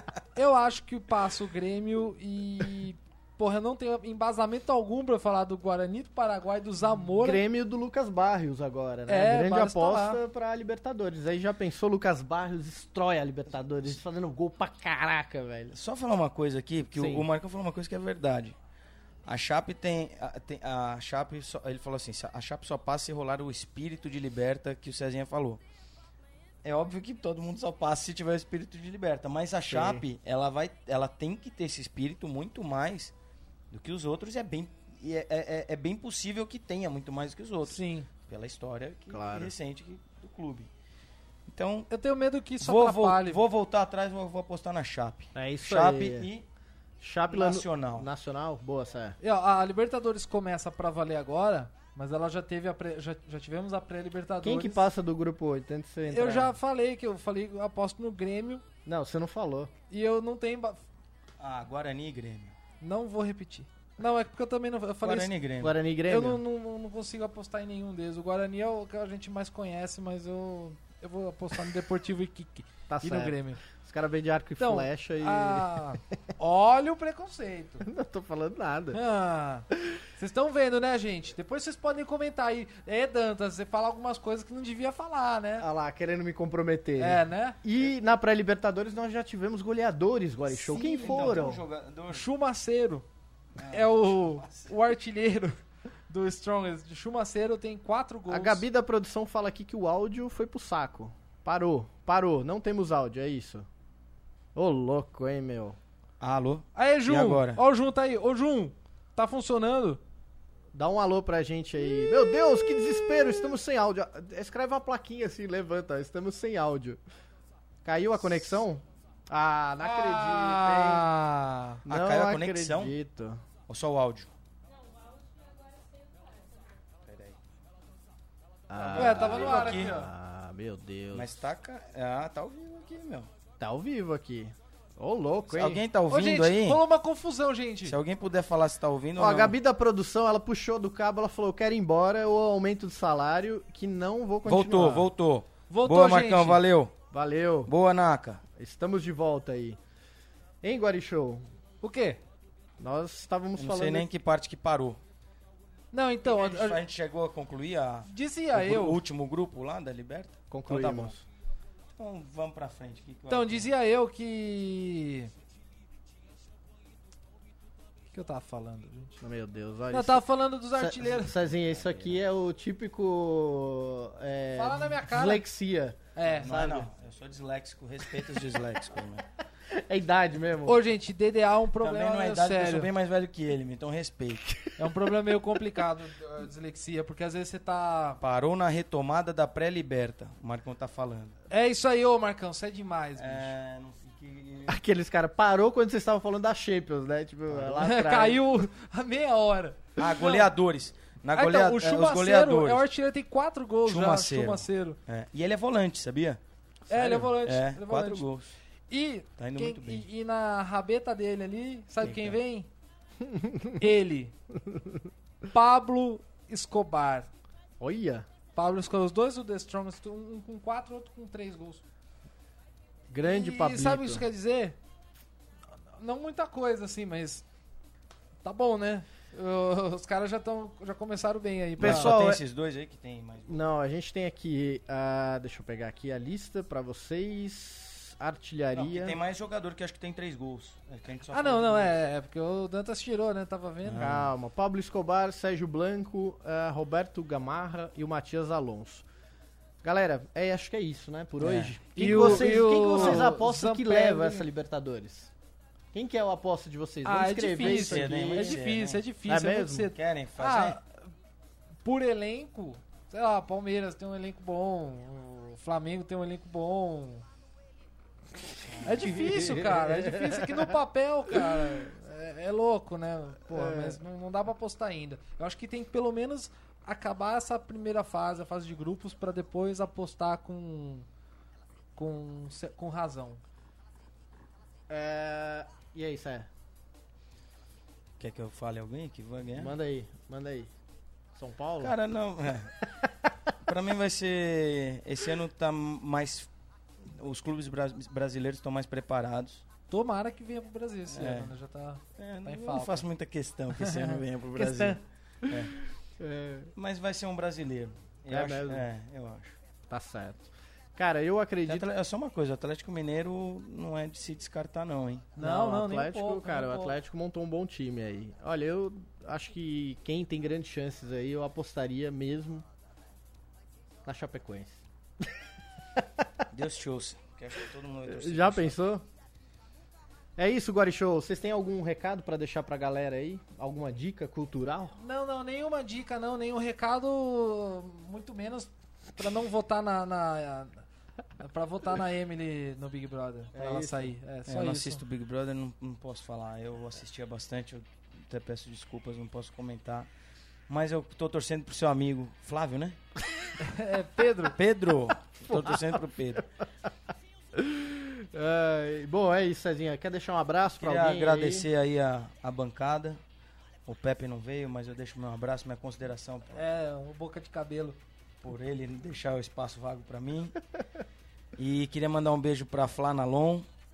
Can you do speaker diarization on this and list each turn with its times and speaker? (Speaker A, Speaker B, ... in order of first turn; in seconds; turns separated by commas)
Speaker A: 0.3-7.4, Speaker B: 7.2-15.7, Speaker A: 9.1-10.2, Speaker C: 15.7-18.6, Speaker B: 16.9-17.3, Speaker C: 19.2-25.6, Speaker C: 26.6-33.1, Speaker B: 29.7-30.1, Speaker C: 33.7-40.7, Speaker A: 37.6-38.1, Speaker B: 39.1-39.5, Speaker C: 41.5-41.9, Speaker A: 41.9-43.4, Speaker C: 42.6-46.5, Speaker B: 45.3-46.3, Speaker B: 47.0-49.2, Speaker C: 47.3-48.1, Speaker A: 49.2-54.8, Speaker B: 54.4-56.5, Speaker A: 56.1-58.6, Speaker B: 58.8-59.7, Speaker A: 59.9-60.8, Speaker C: 61.4-62.5, Speaker A: 62.8-65.3, Speaker C: 65.0-65.7, Speaker B: 65.6-66.4, Speaker A: 66.1-73.6, Speaker B: 72.9-75.9, Speaker A: 74.6-77.8, Speaker B: 77.8-79.0, Speaker A: 78.9-85.7, Speaker B: 85.6-91.6, Speaker A: 87.0-87.6, Speaker A: 90.5-91.6, Speaker C: 90.7-92.2, Speaker A: 92.1-93.0, Speaker C: 93.5-94.7, Speaker A: 93.7-95.6, Speaker A: 96.1-98.6, Speaker B: 98.3-103.7, Speaker B: 104.5-105.8, Speaker C: 106.2-107.6, Speaker A: 106.8-110.0, Speaker B: 110.7-117.0, Speaker B: 117.8-121.1, Speaker A: 119.8-121.8, Speaker C: 121.8-123.0, Speaker B: 121.8-123.4, Speaker C: 123.7-124.3, Speaker C: 127.0-127.3, Speaker B: 128.7-131.3, Speaker C: 128.8-129.9, Speaker A: 128.9-130.1, Speaker C: 131.1-133.3, Speaker B: 133.6-135.8, Speaker C: 135.5-136.8, Speaker A: 136.1-137.9, Speaker C: 137.8-139.6, Speaker B: 139.2-145.1, Speaker C: 144.4-146.9, Speaker A: 145.7-146.6, Speaker B: 147.1-147.7, Speaker C: 147.7-148.4, Speaker B: 148.5-149.8, Speaker B: 150.6-151.4, Speaker A: 151.8-152.2, Speaker B: 152.8-154.1, Speaker C: 153.6-155.0, Speaker A: 155.9-156.8, Speaker C: 156.2-161.1, Speaker A: 158.1-159.0, Speaker B: 160.5-161.2, Speaker C: 162.0-163.7, Speaker A: 163.3-165.3, Speaker A: 168.1-169.2, Speaker B: 169.2-176.9, Speaker A: 169.9-171.3, Speaker A: 174.5-175.4, Speaker A: 176.1-176.5, Speaker C: 176.4-179.3, Speaker B: 179.7-180.8, Speaker A: 180.6-182.9, Speaker C: 181.8-184.6, Speaker A: 184.8-188.2, Speaker C: 188.2-191.4, Speaker A: 191.5-193.5, Speaker C: 193.2-194.8, Speaker B: 194.7-198.4, Speaker C: 197.5-197.8, Speaker A: 197.8-200.5, Speaker C: 200.0-202.8, Speaker A: 201.3-205.0, Speaker C: 203.8-208.5, Speaker A: 206.9-208.2, Speaker A: 208.9-212.7, Speaker C: 209.4-210.1, Speaker C: 212.0-212.4, Speaker B: 213.2-213.7, Speaker A: 213.8-214.3, Speaker A: 215.5-217.3, Speaker B: 217.8-218.3, Speaker A: 218.5-221.8, Speaker B: 223.1-224.2, Speaker A: 223.2-224.8, Speaker A: 225.9-227.4, Speaker A: 228.4-232.1, Speaker B: 231.8-232.4, Speaker C: 231.8-233.6, Speaker B: 233.5-239.2, Speaker C: 238.7-241.9, Speaker A: 241.3-244.1, Speaker C: 243.8-244.3, Speaker B: 244.0-249.0, Speaker B: 249.8-255.3, Speaker C: 251.4-251.7, Speaker A: 251.9-254.4, Speaker C: 252.9-253.2, Speaker B: 255.9-258.6, Speaker A: 257.0-261.0, Speaker C: 257.6-259.0, Speaker B: 259.2-259.9, Speaker C: 259.9-260.8, Speaker A: 261.8-267.2, Speaker C: 268.7-269.3, Speaker A: 268.8-281.1, Speaker B: 269.2-270.7, Speaker B: 273.5-274.0, Speaker A: 281.9-283.4, Speaker B: 284.9-286.5, Speaker C: 288.2-289.7, Speaker B: 289.6-290.7, Speaker B: 291.4-291.9, Speaker C: 291.8-292.8, Speaker B: 293.0-293.3, Speaker C: 293.6-296.5, Speaker C: 297.0-299.6, Speaker A: 299.9-303.1, Speaker C: 301.1-301.5, Speaker C: 302.2-305.7, Speaker A: 303.8-305.0, Speaker B: 306.2-306.7, Speaker C: 306.8-309.6, Speaker B: 308.3-308.9, Speaker B: 309.9-311.9, Speaker C: 311.6-315.3, Speaker B: 315.4-322.6, Speaker A: 315.4-317.0, Speaker B: 324.0-325.3, Speaker B: 325.9-326.4, Speaker C: 326.5-328.8, Speaker B: 328.1-329.0, Speaker B: 330.4-335.0, Speaker A: 335.0-340.8, Speaker A: 341.4-345.0, Speaker B: 343.5-344.1, Speaker C: 344.5-350.1, Speaker C: 350.7-353.0, Speaker A: 353.6-354.6, Speaker C: 354.5-356.4, Speaker B: 355.5-355.8, Speaker B: 357.5-361.7, Speaker C: 360.8-363.2, Speaker C: 363.9-366.6, Speaker A: 366.5-368.0, Speaker C: 368.4-370.6, Speaker C: 371.6-373.7